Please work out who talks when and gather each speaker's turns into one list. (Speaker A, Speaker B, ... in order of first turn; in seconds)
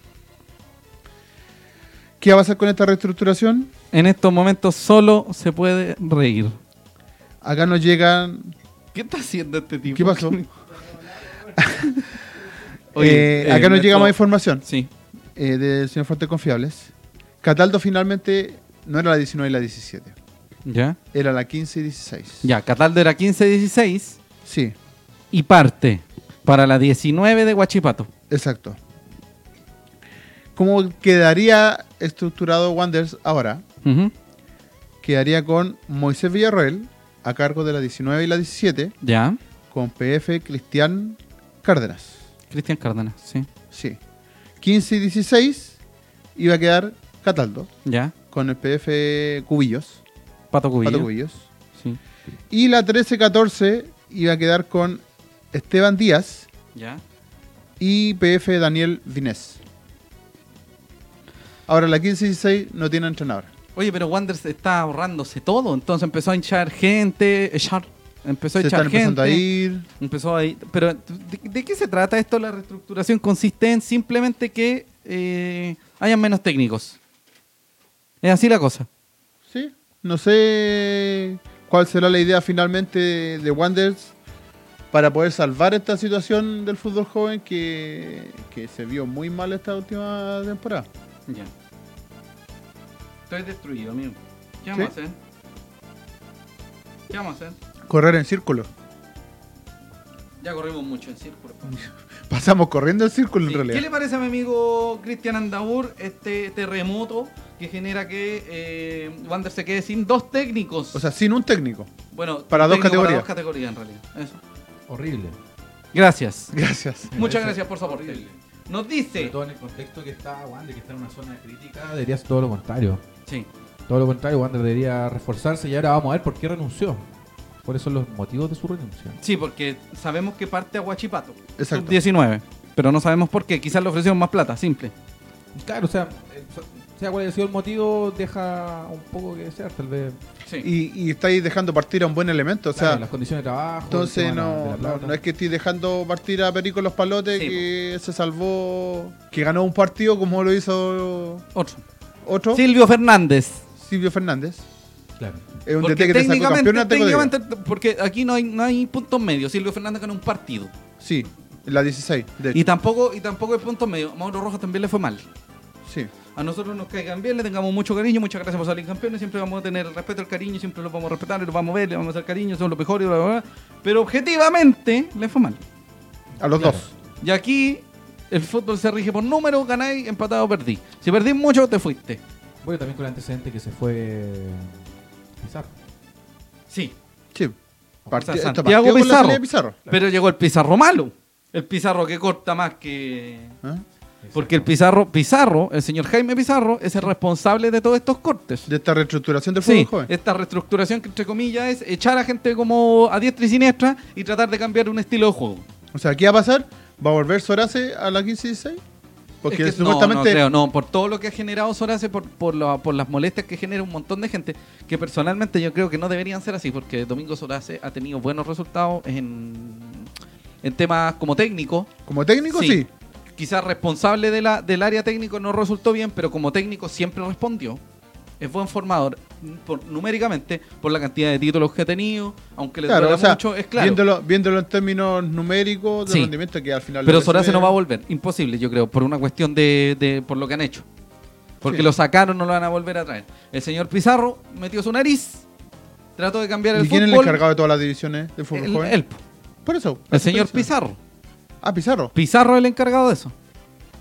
Speaker A: 2.2-3.7, 7.4-8.5, 9.9-10.4, 11.6-11.9, 12.9-14.6, 15.3-20.1, 21.1-22.5, 24.4-24.8, 28.3-28.8, 30.5-33.6, 35.0-38.9, 39.7-42.2, 43.7-44.0, 44.6-45.8, 46.3-47.7, 48.3-50.0, 50.8-51.4, 52.5-56.5, 57.8-59.6, 61.7-63.5, 68.6-69.8, 79.5-84.1, 84.9-90.9, 97.9-98.7, 102.3-103.8, 110.9-111.9, 112.5-113.3, 116.5-117.2, 131.6-132.0, 140.6-143.0, 143.9-151.4, 152.2-152.6, 153.8-154.7, 155.6-157.3, 161.0-162.6, 165.8-166.1, 176.4-176.9, 188.1-189.8, 198.7-200.1, 205.9-208.8, 209.4-210.4, 222.1-222.9, 232.8-237.8, 241.6-241.9, 246.7-248.9, 249.6-250.7, 251.6-252.1
Speaker B: 3.9-6.5, 8.9-10.5, 11.7-12.1, 12.9-14.9, 20.6-21.0, 22.4-24.2, 25.3-28.1, 33.8-34.1, 39.0-39.4, 42.5-43.5, 47.9-48.1, 50.5-51.1, 56.7-57.0, 63.8-69.4, 70.0-77.0, 78.2-78.9, 93.3-95.1, 97.1-97.5, 100.4-101.9, 103.4-111.0, 112.1-114.4, 115.9-116.5, 117.1-119.3, 129.2-134.9, 147.3-147.6, 151.5-151.8, 152.5-153.6, 155.8-160.7, 162.5-165.2, 166.3-175.6, 177.2-182.2, 186.7-186.9, 188.1-193.6, 194.3-198.7, 199.6-205.6, 209.5-220.1, 220.6-221.9, 222.5-222.8, 223.3-227.8, 228.4-234.0, 236.1-236.3, 237.0-240.8, 241.6-245.4, 246.2-247.4, 248.5-249.2, 250.1-251.0, 252.1-253.3
Speaker C: 114.9-115.4, 117.1-118.4, 119.1-123.0, 123.9-127.1, 127.6-129.2, 135.5-140.2, 142.7-145.2, 155.2-155.4, 176.4-176.9, 182.6-184.9, 185.4-185.7, 194.2-194.7